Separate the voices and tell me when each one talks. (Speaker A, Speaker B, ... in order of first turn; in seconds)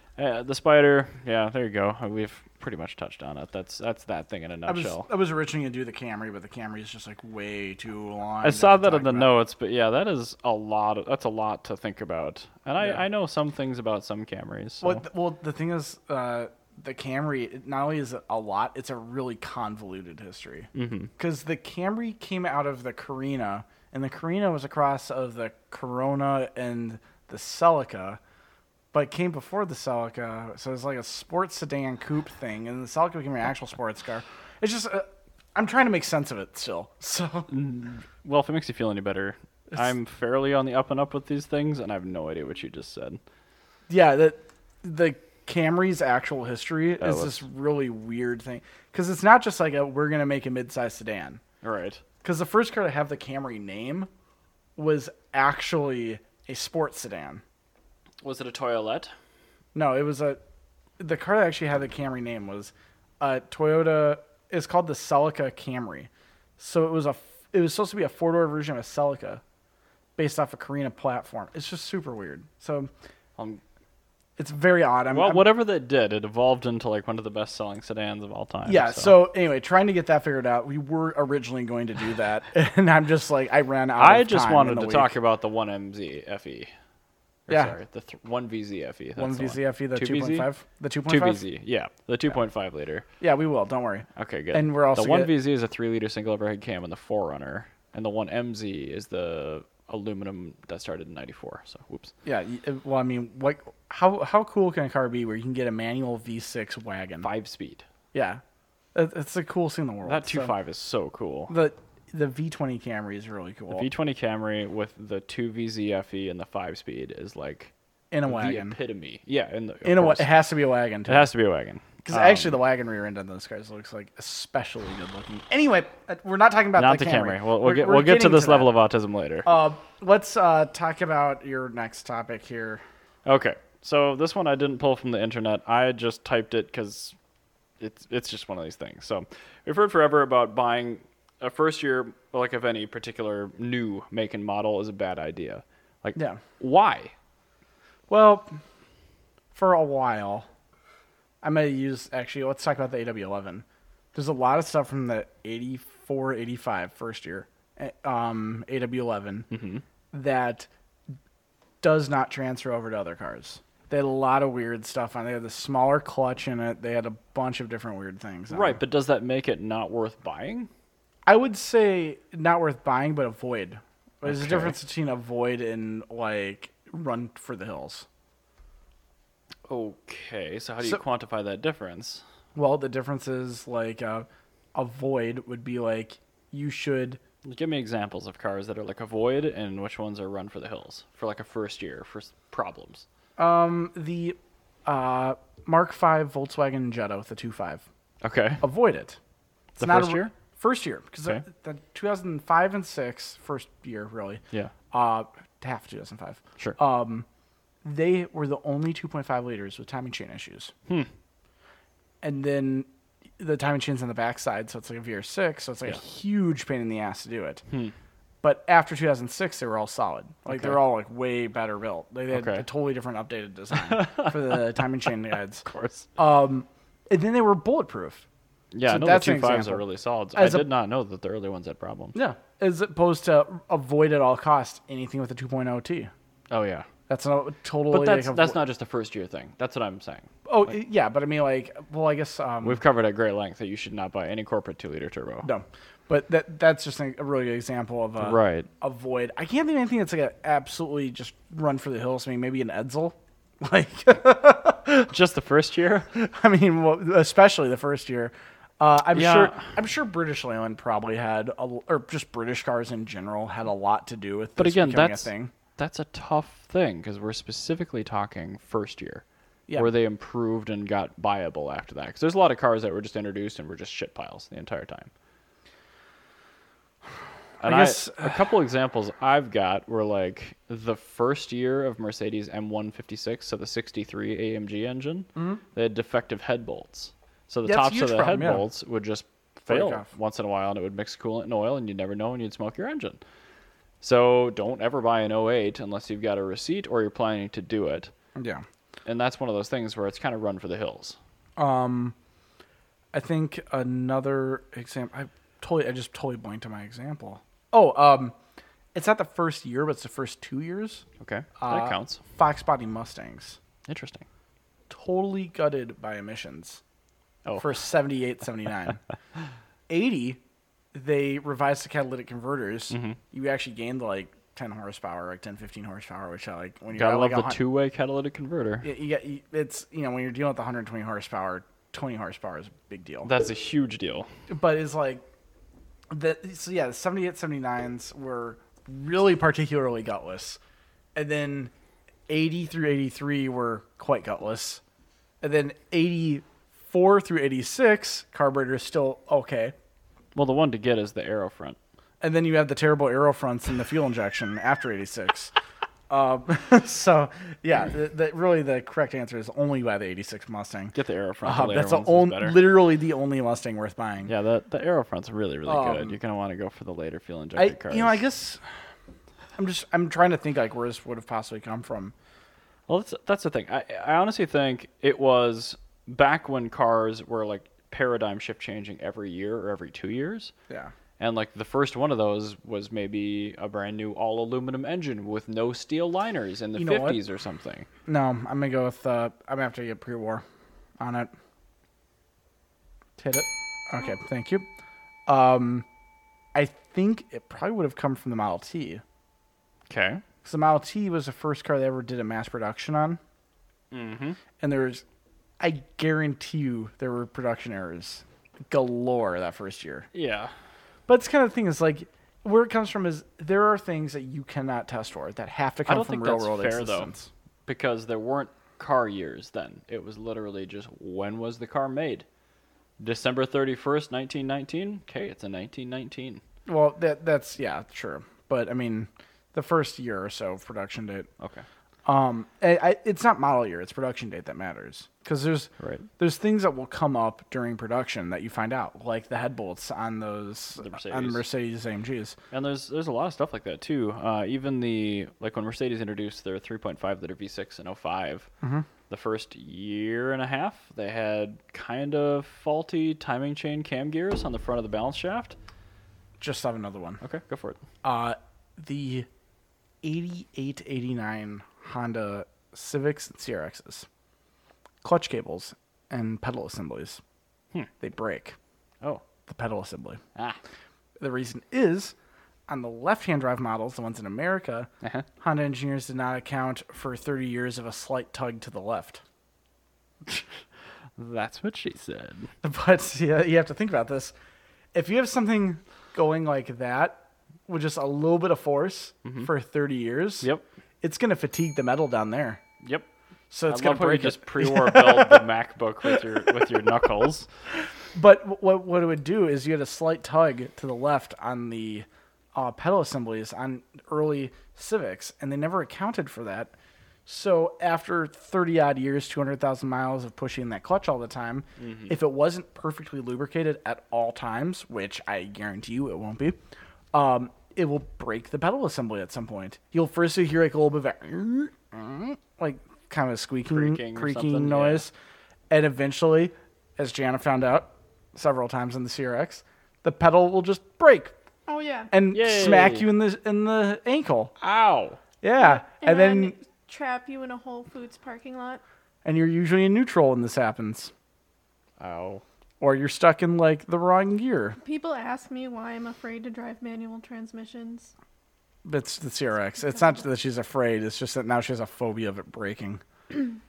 Speaker A: 0.2-5.1, 8.4-15.0, 20.7-21.1, 37.5-43.2, 47.0-47.4, 51.6-52.0, 58.2-59.1, 75.1-79.2, 84.0-86.7, 87.5-90.5, 91.1-93.0, 94.2-102.1, 107.2-107.8, 110.0-111.5, 113.7-117.7, 118.3-120.3, 121.1-122.5, 126.8-129.5, 133.2-137.2, 137.8-147.1, 159.5-159.8, 168.5-170.7, 174.2-174.8, 179.7-182.2, 187.4-193.0, 198.2-198.6, 199.8-200.3, 217.7-217.9, 220.5-220.8, 222.3-222.7, 223.8-224.7, 225.6-226.1, 228.7-232.2, 236.5-236.9, 237.9-240.3, 242.6-245.5, 248.2-248.7, 255.1-256.1, 259.1-259.7, 264.6-269.2, 269.8-275.1, 277.6-293.2, 294.0-298.1, 299.1-301.2, 311.2-312.2, 313.9-314.2, 317.4-317.7, 322.9-323.2, 326.9-328.9, 333.2-334.3, 350.3-351.8, 360.9-362.6, 364.2-368.2, 372.9-380.5, 381.2-387.9, 399.9-400.2, 403.9-404.4, 410.1-410.5, 415.9-417.1, 417.6-422.2, 423.0-426.4, 431.4-431.6, 435.8-436.1, 440.8-441.4, 442.5-448.5, 449.1-455.6, 457.2-457.8, 481.1-482.5, 492.8-493.1, 493.7-497.5, 511.8-512.1, 523.7-525.0, 532.3-533.1, 534.6-535.2, 542.0-542.4
Speaker B: 4.7-9.3, 14.8-28.2, 28.9-37.5, 43.9-51.4, 52.2-54.1, 54.8-57.4, 59.7-60.4, 61.0-69.4, 70.2-72.9, 74.4-75.4, 78.6-85.1, 87.5-87.8, 89.2-91.4, 93.2-95.3, 102.2-107.3, 108.1-108.4, 108.9-110.5, 111.5-113.9, 118.1-118.8, 119.8-121.3, 122.0-128.7, 129.4-132.8, 146.2-146.4, 148.1-148.6, 149.5-150.5, 151.4-159.5, 160.1-160.7, 161.8-168.8, 171.2-178.1, 182.5-187.2, 193.4-197.8, 198.6-199.2, 199.8-207.2, 207.8-210.7, 212.2-212.9, 213.4-217.6, 218.4-225.6, 226.2-228.2, 228.8-230.7, 232.1-236.1, 237.1-238.6, 240.5-242.8, 245.4-255.1, 256.1-265.5, 277.6-278.4, 285.4-285.6, 287.6-288.6, 289.7-290.1, 298.3-298.6, 301.6-302.1, 303.1-308.4, 308.9-311.0, 311.6-313.6, 314.9-316.8, 317.6-319.0, 319.9-320.4, 320.9-327.6, 328.8-333.3, 334.5-335.2, 336.1-340.6, 341.1-341.7, 342.3-344.8, 345.4-349.7, 352.2-355.5, 356.1-364.3, 365.6-366.2, 367.6-368.6, 369.6-372.1, 386.7-387.2, 388.1-390.4, 391.0-391.3, 393.2-394.6, 395.3-395.9, 396.5-399.0, 400.4-403.2, 404.6-405.0, 405.6-410.1, 411.1-417.3, 426.6-431.3, 432.0-442.4, 448.6-448.9, 456.4-457.2, 458.0-459.3, 460.0-464.1, 465.0-467.2, 468.0-468.6, 469.5-470.2, 471.2-472.1, 472.7-474.9, 475.4-479.2, 482.6-484.3, 484.9-490.5, 491.0-492.6, 493.5-495.5, 498.1-506.7, 507.2-516.6, 517.1-525.1, 525.7-531.3, 532.1-534.5, 535.4-536.5, 539.2-541.1, 542.8-544.8, 548.8-553.0
Speaker C: 531.7-532.1, 535.6-538.8, 544.8-548.1